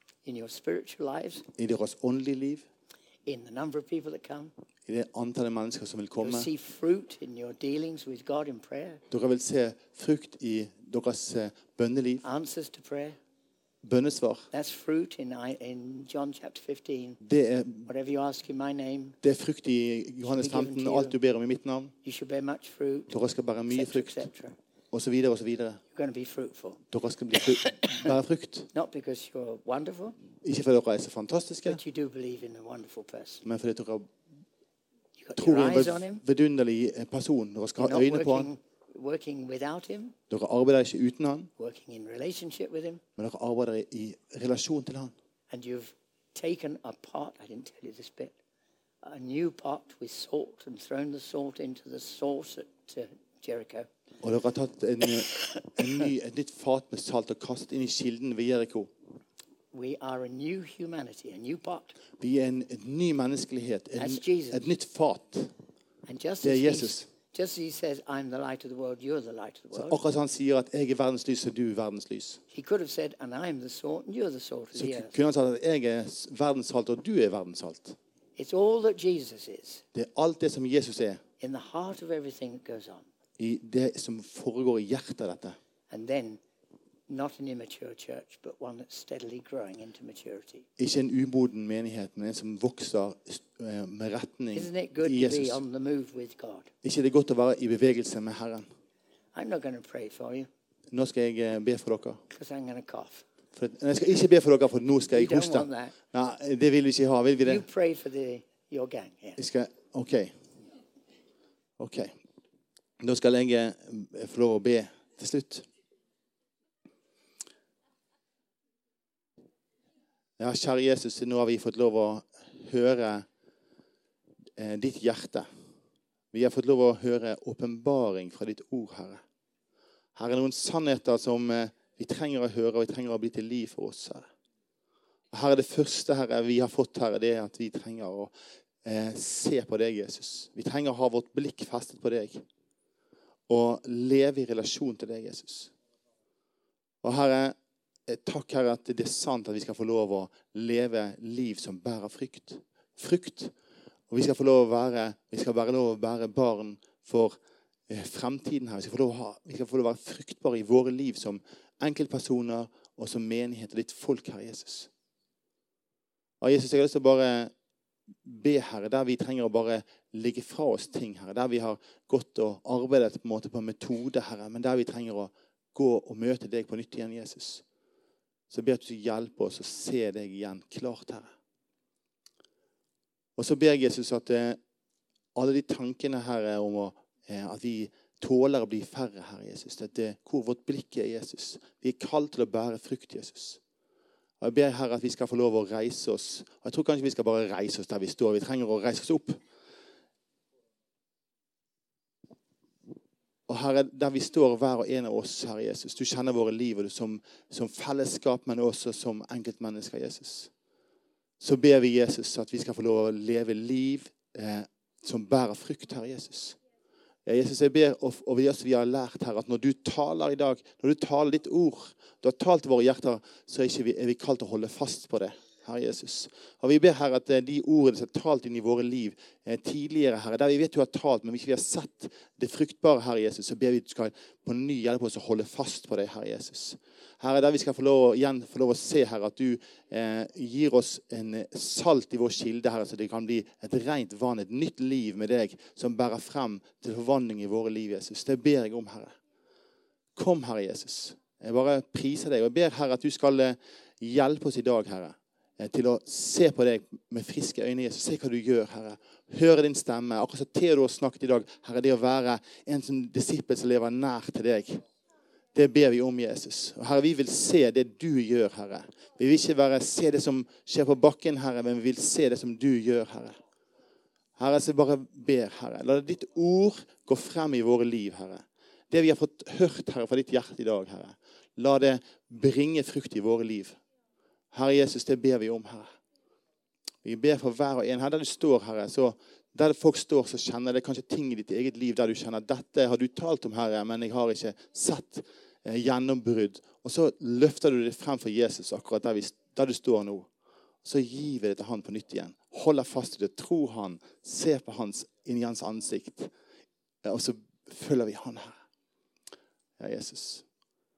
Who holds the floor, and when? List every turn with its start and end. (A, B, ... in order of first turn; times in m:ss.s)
0:00.2-0:01.4 A
0:01.6-0:02.6 B
0:03.2-0:04.5 A
0:04.9-0:06.5 B
0:06.2-0:09.0 A
0:09.1-0:12.2 B
0:12.2-0:13.2 A
0:13.8-0:14.5 B
0:14.5-0:17.2 A
0:17.2-0:17.9 B
0:17.9-0:19.2 A
0:19.2-0:21.9 B
0:20.2-0:21.2 A
0:22.0-0:23.1 A
0:23.1-0:24.3 B
0:23.7-0:24.5 A
0:24.9-0:25.8 B
0:25.9-0:26.8 A
0:26.9-0:28.7 B
0:27.4-0:28.1 A
0:28.7-0:30.2 A
0:30.4-0:31.8 B
0:31.6-0:33.4 A
0:33.4-0:34.1 B
0:35.2-0:36.2 A
0:35.4-0:38.5 B
0:37.8-0:40.2 A
0:40.3-0:41.5 B
0:41.6-0:43.0 A
0:43.2-0:45.1 B
0:45.5-0:48.3 A
0:49.0-0:53.9 A
0:54.2-0:58.9 B
0:55.3-0:55.8 A
0:59.7-1:02.0 A
1:02.2-1:05.5 B
1:04.0-1:04.6 A
1:06.0-1:10.0 A
1:06.4-1:07.1 B
1:09.7-1:12.4 B
1:12.5-1:15.1 A
1:14.7-1:18.0 B
1:18.4-1:19.8 A
1:19.9-1:21.2 B
1:21.4-1:23.1 A
1:23.4-1:25.6 B
1:25.9-1:26.4 A
1:27.1-1:30.6 A
1:30.8-1:35.6 B
1:34.5-1:36.7 A
1:36.8-1:38.6 B
1:39.3-1:40.5 A
1:40.9-1:42.2 B
1:42.3-1:43.2 A
1:43.5-1:47.6 B
1:45.1-1:46.0 A
1:47.4-1:49.4 A
1:49.4-1:50.3 B
1:51.8-1:52.1 B
1:53.0-1:55.6 B
2:00.4-2:03.2 B
2:04.6-2:05.4 B
2:06.3-2:09.2 B
2:10.2-2:14.3 B
2:15.3-2:18.3 B
2:18.8-2:22.4 B
2:23.5-2:25.7 B
2:27.0-2:27.6 B
2:28.1-2:33.5 B
2:34.1-2:37.4 B
2:37.9-2:44.9 B
2:46.4-2:47.5 B
2:48.2-2:57.6 B
2:58.5-3:01.3 B
3:03.4-3:04.6 B
3:05.3-3:13.6 B
3:14.4-3:19.4 B
3:23.5-3:30.5 B
3:31.4-3:36.6 B
3:37.2-4:09.1 B
4:10.2-4:24.8 B
4:25.5-4:33.3 B
4:34.4-4:43.8 B
4:44.5-4:45.9 B
4:47.0-5:00.3 B
5:00.8-5:06.3 B
5:07.0-5:08.6 B
5:09.8-5:10.4 B